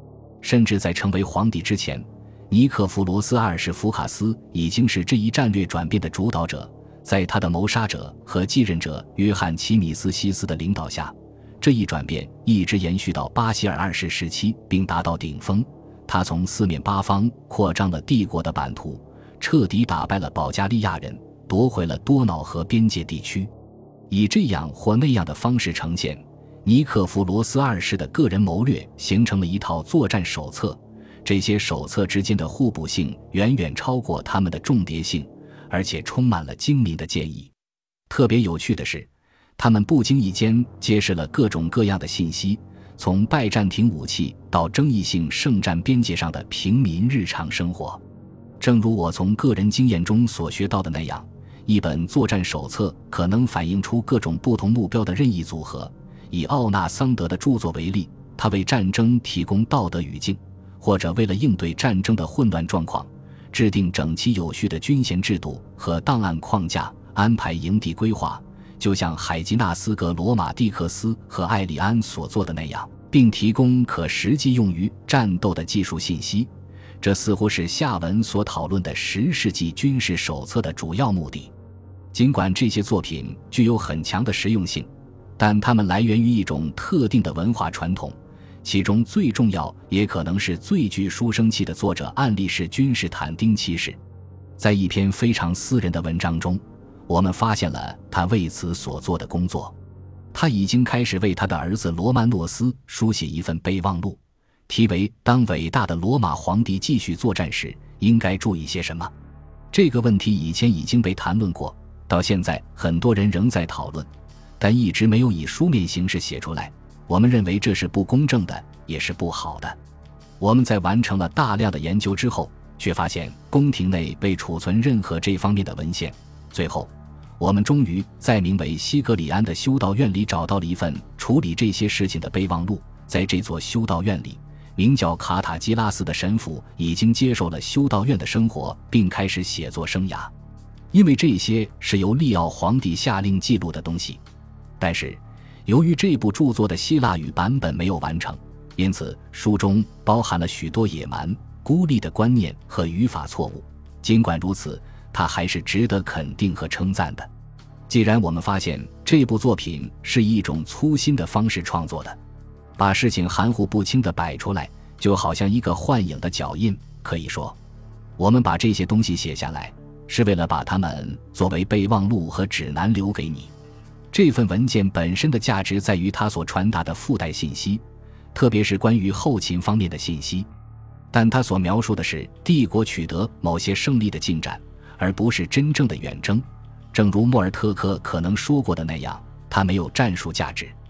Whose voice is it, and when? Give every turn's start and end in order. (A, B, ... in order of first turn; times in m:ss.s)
0:00.4-0:23.5 A
0:24.1-0:37.5 A
0:38.1-0:48.0 A
0:48.6-1:16.5 A
1:17.0-1:21.5 A
1:22.1-1:34.0 A
1:34.6-1:39.8 A
1:40.3-1:49.1 A
1:49.7-1:59.8 A
2:00.4-2:20.3 A
2:20.9-2:24.2 A
2:24.8-2:37.3 A
2:37.9-2:42.2 A
2:42.8-2:47.6 A
2:48.2-2:53.5 A
2:54.1-2:57.8 A
2:58.3-3:00.5 A
3:01.1-3:10.8 A